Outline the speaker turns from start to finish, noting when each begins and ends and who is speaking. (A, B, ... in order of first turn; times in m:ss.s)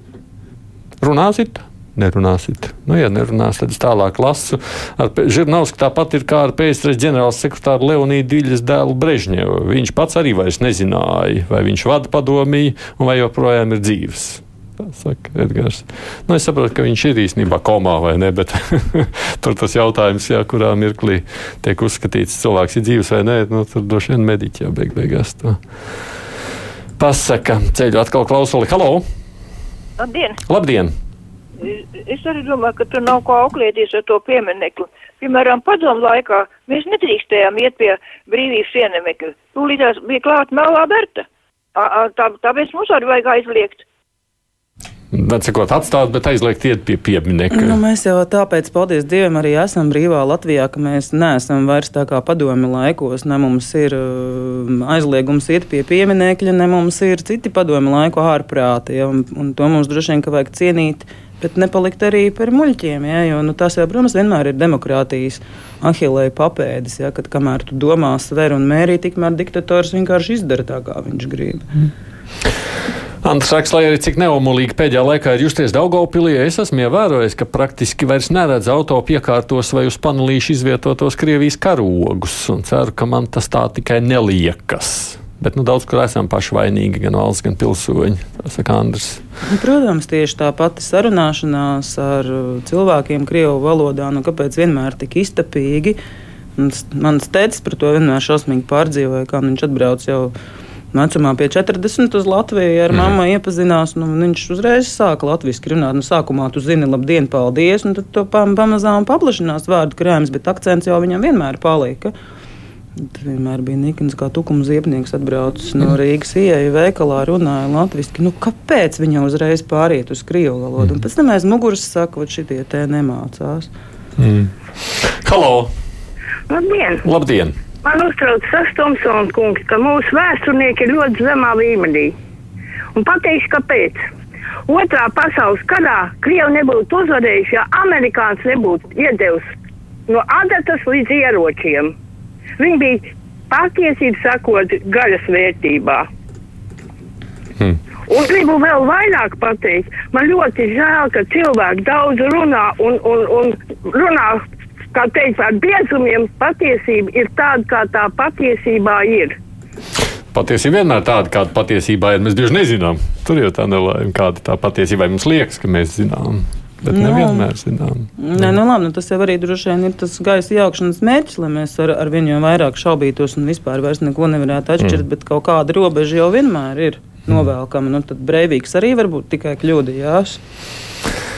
0:01.0-0:25.6 A
0:27.0-0:29.0 A
0:30.0-0:30.4 B
0:30.5-0:30.9 A
0:31.6-0:43.8 B
0:45.1-0:47.8 A
0:47.5-1:11.7 C
1:13.2-1:29.2 A
1:29.4-1:36.0 C
1:36.6-1:40.3 C
1:40.9-1:52.1 C
1:53.0-2:03.7 C
2:04.2-2:05.7 A
2:06.5-2:07.0 D
2:07.0-2:07.6 A
2:07.8-2:12.1 D
2:13.0-2:14.0 D
2:14.7-2:19.5 D
2:20.1-2:21.9 D
2:22.6-2:26.1 D
2:28.1-2:34.4 D
2:34.9-2:39.4 D
2:40.3-2:48.5 A
2:46.9-2:47.5 C
2:48.2-3:00.4 C